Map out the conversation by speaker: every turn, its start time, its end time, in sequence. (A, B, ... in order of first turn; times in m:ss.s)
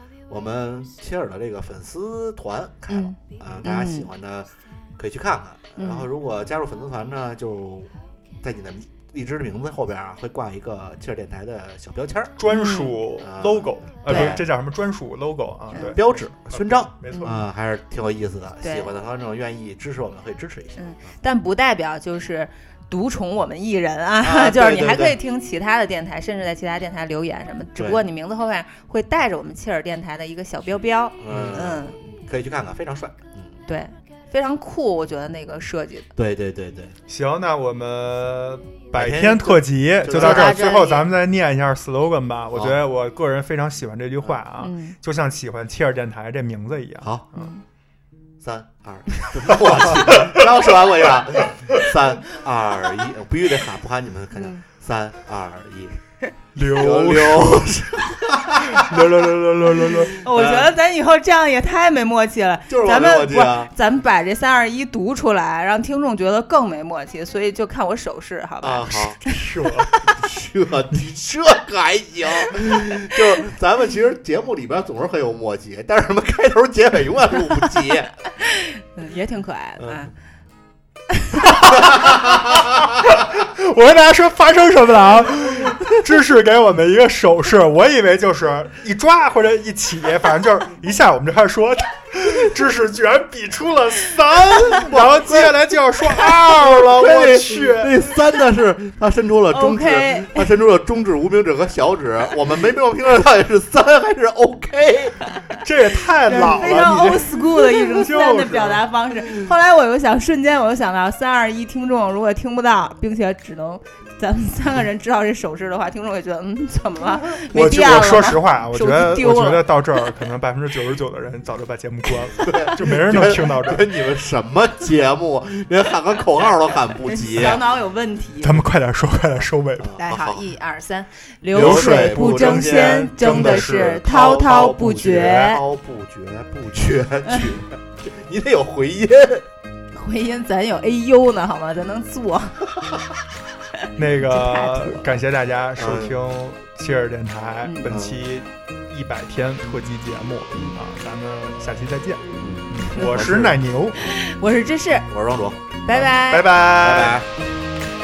0:00.3-0:12.4 A
0:02.9-0:04.1 B
0:05.8-0:06.1 B
0:12.4-0:17.4 C
0:12.5-0:13.0 B
0:13.2-0:14.5 A
0:14.1-0:14.4 B
0:15.7-0:16.0 B
0:15.8-0:20.8 A
0:17.1-0:17.4 B
0:18.6-0:18.9 B
0:20.8-0:32.0 B
0:24.2-0:25.2 A
0:27.8-0:28.0 A
0:31.2-0:33.6 A
0:33.7-0:36.1 B
0:36.2-0:37.0 A
0:37.1-0:47.5 C
0:38.9-0:40.6 A
0:40.2-0:41.1 B
0:44.6-0:44.9 B
0:47.3-0:47.6 B
0:48.4-0:56.0 A
0:49.9-0:50.4 C
0:54.3-0:54.6 B
0:56.5-0:57.8 C
0:56.6-0:58.9 A
0:58.6-1:00.1 C
1:00.0-1:00.7 A
1:00.2-1:10.1 B
1:02.7-1:03.7 A
1:08.6-1:09.2 A
1:09.3-1:09.9 C
1:10.0-1:18.1 A
1:18.5-1:20.1 B
1:19.8-1:20.0 A
1:21.2-1:21.7 B
1:21.6-1:38.2 C
1:21.8-1:22.6 A
1:34.6-1:35.6 A
1:36.1-1:45.2 A
1:39.5-1:40.5 B
1:45.6-1:48.8 C
1:46.2-1:59.7 B
1:57.5-2:03.9 C
2:02.4-2:07.6 A
2:07.0-2:08.7 B
2:08.4-2:10.0 C
2:09.8-2:10.4 A
2:10.0-2:15.6 B
2:11.5-2:14.0 C
2:11.5-2:19.5 A
2:19.9-2:22.6 B
2:23.8-2:25.2 B
2:24.0-2:34.0 C
2:25.8-2:26.2 A
2:27.6-2:27.9 B
2:27.9-2:28.2 A
2:32.4-2:33.6 A
2:34.0-2:35.1 B
2:35.1-2:36.1 A
2:35.8-2:36.5 B
2:36.1-2:37.2 C
2:36.7-2:37.3 A